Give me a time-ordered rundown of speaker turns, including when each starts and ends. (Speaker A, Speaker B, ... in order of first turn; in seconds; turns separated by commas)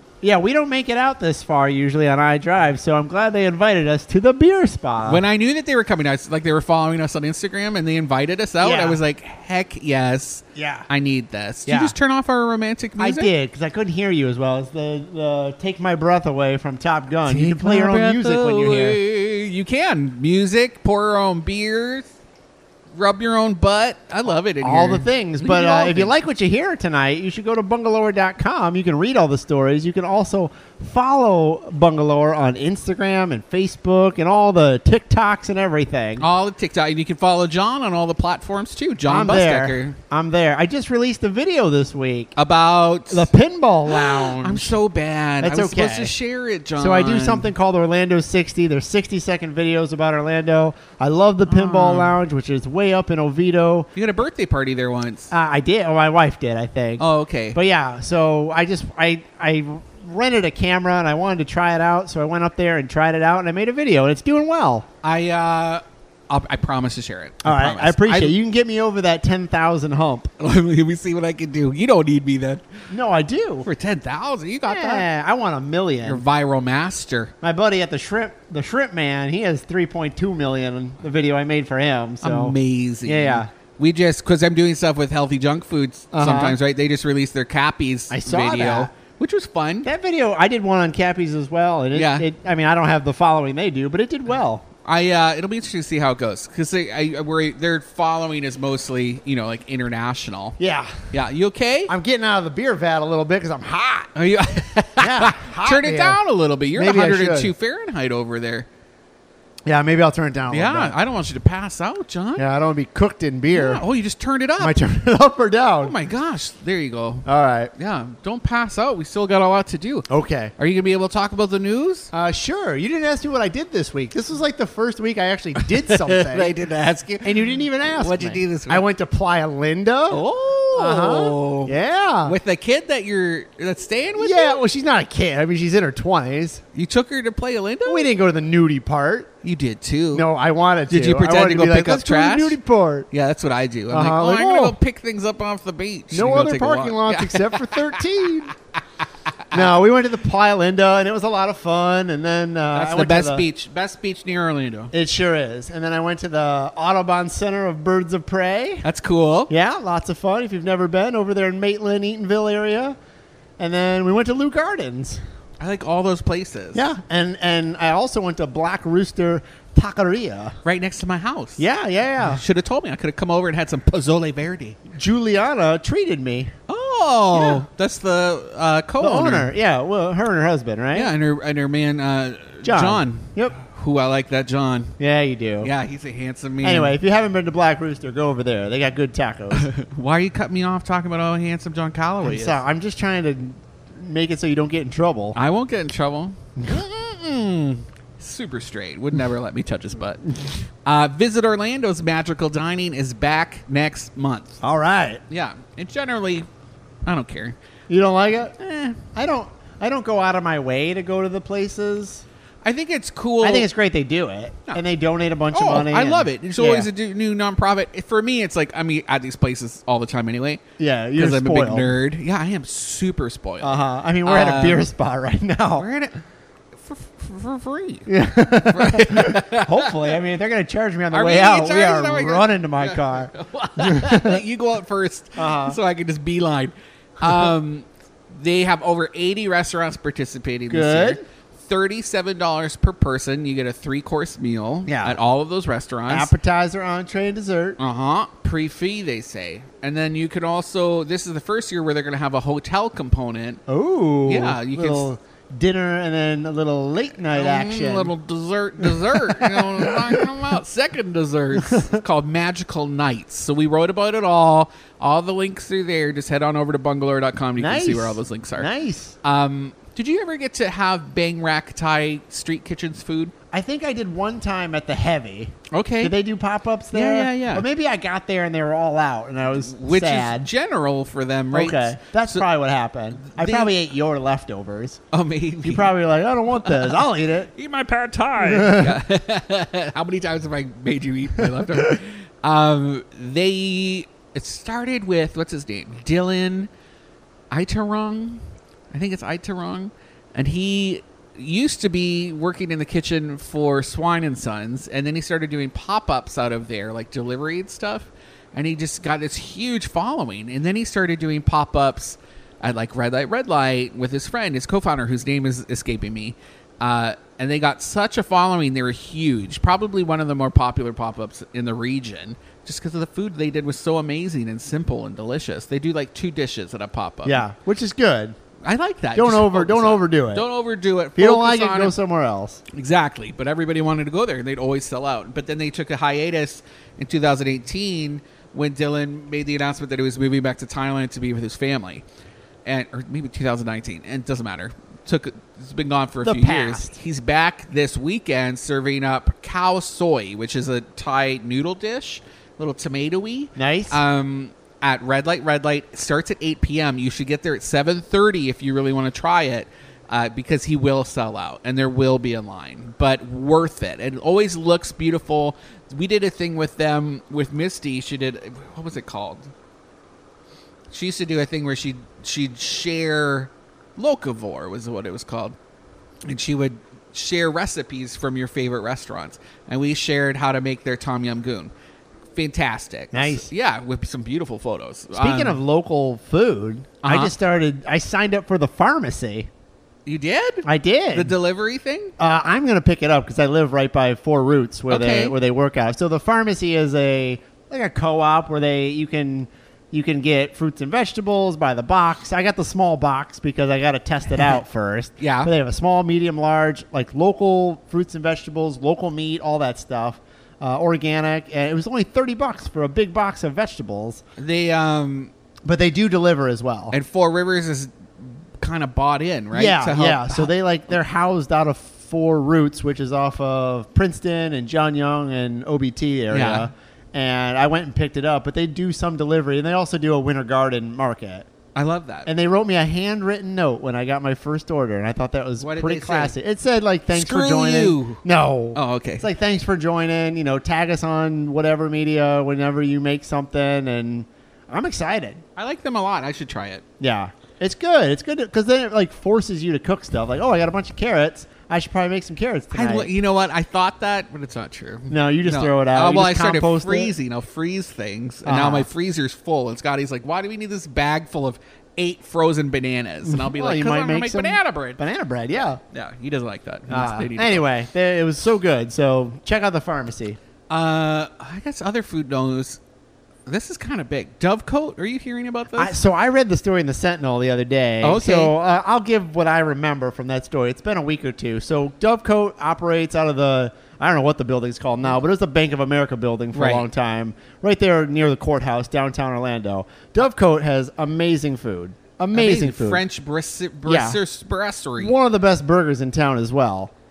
Speaker A: 0.2-5.2, Speaker B: 5.0-13.3, Speaker A: 8.6-9.0, Speaker A: 10.5-10.9, Speaker A: 11.7-12.0, Speaker A: 13.0-19.0, Speaker B: 17.2-22.1, Speaker B: 22.9-26.1, Speaker A: 24.6-36.2, Speaker B: 36.2-40.0, Speaker A: 39.1-42.3, Speaker B: 42.4-43.3, Speaker A: 43.1-44.8, Speaker B: 43.9-47.5, Speaker A: 45.4-46.1, Speaker A: 46.8-53.9, Speaker B: 51.5-52.1, Speaker B: 54.0-55.3, Speaker A: 55.3-64.8, Speaker B: 57.0-57.6, Speaker B: 65.0-68.3, Speaker A: 67.4-70.3, Speaker B: 70.4-72.6, Speaker A: 72.9-73.7, Speaker B: 73.6-75.0, Speaker A: 74.7-76.2, Speaker B: 76.0-77.3, Speaker A: 77.4-83.5, Speaker B: 82.2-89.9, Speaker A: 86.1-86.6, Speaker A: 88.1-88.9, Speaker A: 89.8-94.6, Speaker B: 91.9-92.3, Speaker B: 94.8-100.6, Speaker A: 100.6-101.1, Speaker B: 101.1-101.9, Speaker A: 101.9-104.1, Speaker B: 104.1-108.7, Speaker A: 105.0-106.2, Speaker A: 106.7-107.5, Speaker A: 109.7-111.0, Speaker B: 110.5-112.4, Speaker A: 112.4-113.8, Speaker B: 113.5-114.8, Speaker A: 114.6-115.9, Speaker B: 115.8-122.1, Speaker A: 117.2-117.7, Speaker A: 120.1-120.5, Speaker A: 122.1-126.5, Speaker B: 125.9-128.8, Speaker A: 127.2-130.2, Speaker B: 130.1-134.6, Speaker A: 130.8-132.3, Speaker A: 134.2-136.6, Speaker B: 136.7-138.1, Speaker A: 137.8-139.3, Speaker B: 139.4-140.2, Speaker A: 140.1-143.1, Speaker B: 140.9-142.6, Speaker B: 143.1-148.0, Speaker A: 143.9-144.8, Speaker A: 146.1-148.5, Speaker A: 149.5-153.4, Speaker B: 152.7-154.9, Speaker A: 154.9-158.8, Speaker B: 158.8-159.5, Speaker A: 159.5-162.9, Speaker A: 163.6-165.2, Speaker B: 165.6-166.9, Speaker A: 166.7-170.6, Speaker B: 170.6-171.6, Speaker A: 171.6-172.4, Speaker B: 172.2-174.8, Speaker A: 174.9-176.5, Speaker B: 176.7-179.5, Speaker A: 177.3-177.6, Speaker A: 179.0-181.1, Speaker B: 180.9-184.9, Speaker A: 182.6-183.5, Speaker A: 185.0-185.7, Speaker B: 185.6-186.9, Speaker A: 186.6-189.7, Speaker B: 189.5-192.6, Speaker A: 192.2-195.4, Speaker B: 195.3-204.6, Speaker A: 204.6-205.2, Speaker B: 205.3-206.5, Speaker B: 207.0-207.6, Speaker A: 207.9-212.2, Speaker B: 208.6-209.1, Speaker B: 212.6-213.7, Speaker A: 213.4-216.9, Speaker B: 215.5-220.6, Speaker A: 220.8-221.9, Speaker B: 221.2-224.9, Speaker A: 223.6-225.9, Speaker B: 225.8-226.2, Speaker B: 226.8-228.1, Speaker A: 228.1-234.4, Speaker B: 228.7-230.1, Speaker B: 231.1-246.3, Speaker A: 235.3-235.8, Speaker A: 240.7-241.2, Speaker A: 244.9-245.2, Speaker A: 246.1-247.8, Speaker B: 247.8-253.6, Speaker A: 253.7-258.1, Speaker B: 254.2-255.1, Speaker B: 257.3-268.7, Speaker A: 258.8-260.3, Speaker A: 267.6-269.1, Speaker B: 269.2-273.3, Speaker A: 273.5-280.5, Speaker B: 275.7-276.1, Speaker B: 276.9-277.6, Speaker B: 279.5-282.4, Speaker A: 281.5-285.0, Speaker B: 283.2-283.7, Speaker B: 285.1-285.9, Speaker A: 285.6-287.5, Speaker B: 286.6-296.7, Speaker A: 288.4-289.0, Speaker B: 297.5-327.4, Speaker A: 327.2-328.4, Speaker B: 328.6-331.9, Speaker A: 329.1-330.4, Speaker A: 331.1-332.6, Speaker B: 332.7-342.0, Speaker B: 342.6-369.5, Speaker A: 346.2-346.9, Speaker A: 353.6-354.0, Speaker B: 370.9-375.6, Speaker B: 376.2-381.7, Speaker B: 382.4-385.6, Speaker A: 383.1-383.5, Speaker A: 385.1-389.5, Speaker B: 387.0-387.3, Speaker B: 390.1-392.1, Speaker A: 390.6-391.4, Speaker A: 392.2-414.2, Speaker B: 394.9-395.3, Speaker B: 405.2-405.5, Speaker B: 414.4-415.3, Speaker A: 415.6-416.9, Speaker B: 416.9-420.5, Speaker A: 419.5-431.5, Speaker B: 426.3-426.7, Speaker B: 431.7-432.3, Speaker A: 432.2-445.4, Speaker B: 435.6-436.3, Speaker B: 437.1-438.2, Speaker B: 438.7-439.3, Speaker B: 445.6-446.8, Speaker A: 447.0-453.1, Speaker B: 452.7-465.0, Speaker A: 455.1-457.1, Speaker A: 458.4-458.9, Speaker A: 463.2-465.8, Speaker B: 465.9-467.7, Speaker A: 466.9-470.4, Speaker B: 470.7-472.8, Speaker B: 473.4-475.9, Speaker A: 475.7-493.0, Speaker B: 478.0-478.5, Speaker B: 486.5-486.9, Speaker B: 492.3-495.1, Speaker A: 493.9-494.2, Speaker A: 495.0-496.9